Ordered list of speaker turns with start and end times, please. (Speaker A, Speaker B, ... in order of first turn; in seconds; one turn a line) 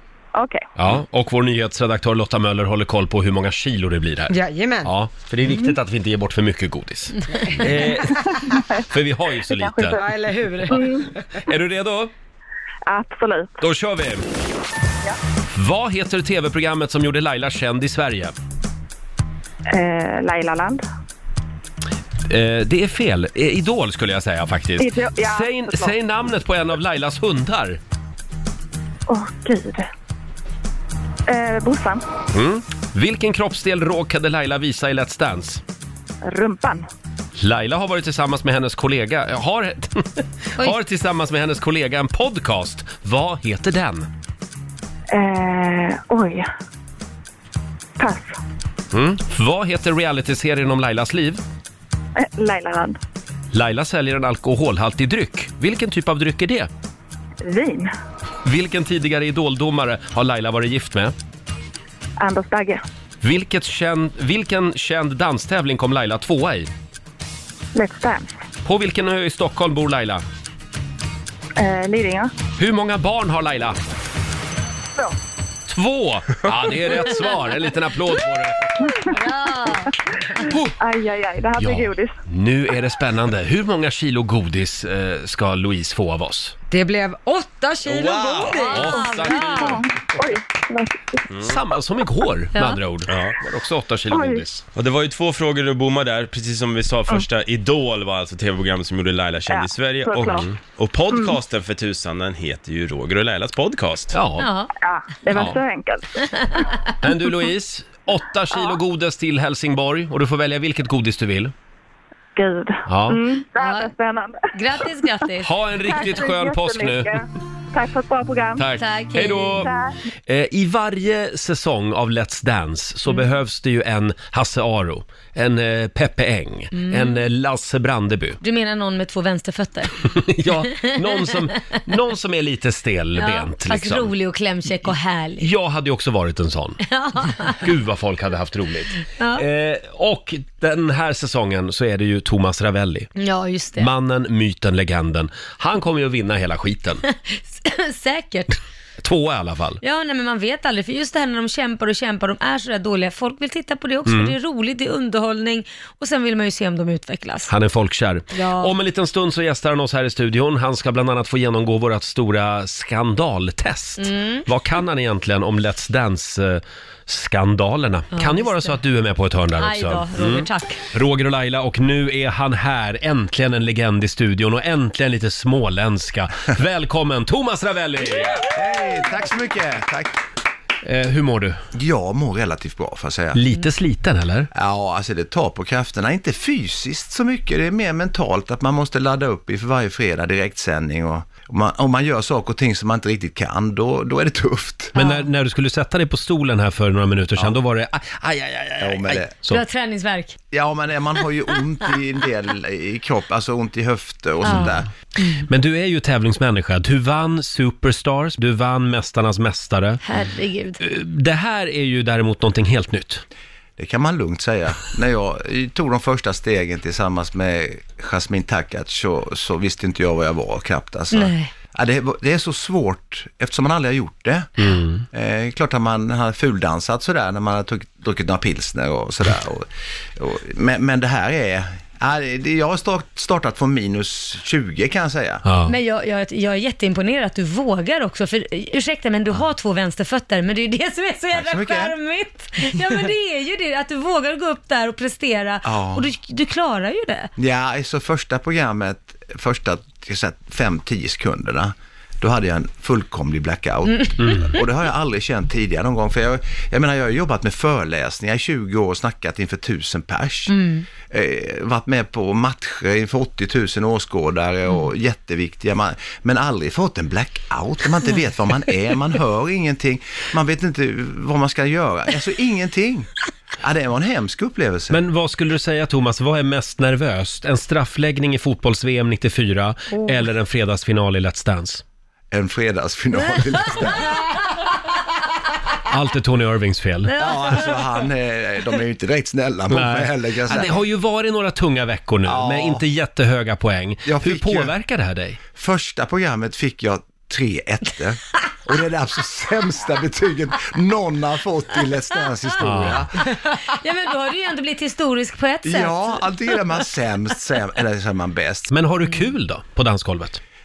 Speaker A: 0.3-0.7
Speaker B: 0.8-8.2
Speaker C: 4.3-4.9
Speaker C: 7.4-7.8
Speaker A: 8.2-8.8
Speaker B: 8.7-10.0
Speaker A: 9.5-10.1
Speaker C: 10.0-11.1
Speaker A: 10.7-11.0
Speaker B: 11.4-12.1
Speaker A: 12.8-13.5
Speaker B: 13.6-14.2
Speaker B: 15.5-18.3
Speaker A: 19.7-20.8
Speaker B: 22.3-27.8
Speaker A: 24.8-25.9
Speaker A: 29.1-29.9
Speaker A: 31.3-32.0
Speaker B: 32.3-35.6
Speaker A: 36.2-36.9
Speaker B: 37.4-44.1
Speaker A: 45.1-46.5
Speaker A: 48.0-48.4
Speaker B: 48.9-51.4
Speaker A: 52.1-53.0
Speaker B: 53.5-56.7
Speaker A: 57.4-57.9
Speaker B: 58.4-61.1
Speaker A: 62.2-62.8
Speaker B: 63.2-66.7
Speaker A: 67.7-68.3
Speaker B: 68.6-70.2
Speaker A: 71.5-72.3
Speaker B: 72.6-73.8
Speaker B: 75.7-78.9
Speaker A: 78.8-79.1
Speaker D: 79.1-80.0
Speaker A: 80.3-82.1
Speaker B: 81.6-86.5
Speaker C: 86.7-89.0
Speaker E: 87.9-88.7
Speaker D: 88.4-89.8
Speaker B: 88.5-89.8
Speaker A: 89.3-91.0
Speaker B: 91.4-94.6
Speaker D: 92.5-92.8
Speaker E: 93.1-93.4
Speaker A: 94.1-94.4
Speaker E: 94.7-104.2
Speaker A: 99.5-100.5
Speaker B: 104.1-104.5
Speaker D: 104.4-104.7
Speaker A: 104.8-106.6
Speaker B: 105.3-105.6
Speaker B: 107.0-111.5
Speaker A: 112.3-114.8
Speaker B: 112.8-113.2
Speaker D: 113.6-113.9
Speaker D: 114.5-115.6
Speaker B: 115.4-117.2
Speaker A: 115.8-118.7
Speaker B: 118.6-119.7
Speaker D: 118.8-119.7
Speaker A: 119.3-120.0
Speaker B: 120.3-128.4
Speaker D: 126.7-127.2
Speaker D: 128.4-130.0
Speaker B: 130.0-134.1
Speaker D: 130.7-131.3
Speaker D: 133.2-135.5
Speaker B: 134.8-136.8
Speaker D: 136.8-137.6
Speaker B: 137.4-143.1
Speaker D: 139.2-139.4
Speaker D: 143.2-143.9
Speaker B: 143.8-147.0
Speaker D: 147.1-148.6
Speaker B: 149.0-149.8
Speaker D: 149.8-157.5
Speaker B: 154.1-154.3
Speaker B: 157.5-178.4
Speaker D: 158.3-158.7
Speaker D: 164.0-164.5
Speaker D: 168.1-168.8
Speaker D: 169.6-170.8
Speaker F: 178.3-180.2
Speaker B: 180.8-181.6
Speaker F: 181.7-183.4
Speaker B: 183.3-184.5
Speaker F: 184.5-194.9
Speaker D: 194.9-195.3
Speaker B: 194.9-199.6
Speaker F: 198.8-199.3
Speaker D: 199.5-200.4
Speaker F: 200.5-204.9
Speaker D: 204.4-205.4
Speaker B: 205.5-210.0
Speaker D: 210.0-210.8
Speaker B: 210.8-213.2
Speaker F: 213.8-235.4
Speaker D: 221.1-221.5
Speaker B: 224.6-225.0
Speaker B: 235.4-235.7
Speaker D: 235.7-247.3
Speaker F: 241.3-241.9
Speaker F: 245.6-246.1
Speaker F: 247.4-275.0
Speaker B: 254.2-254.5
Speaker D: 260.5-260.9
Speaker B: 274.9-281.8
Speaker F: 282.3-284.2
Speaker B: 285.9-287.1
Speaker D: 287.1-287.8
Speaker F: 287.2-290.8
Speaker B: 289.7-295.4
Speaker F: 292.2-292.8
Speaker F: 294.0-294.7
Speaker F: 295.5-303.4
Speaker B: 302.6-303.0
Speaker D: 303.2-306.2
Speaker F: 305.6-308.7
Speaker B: 308.7-310.4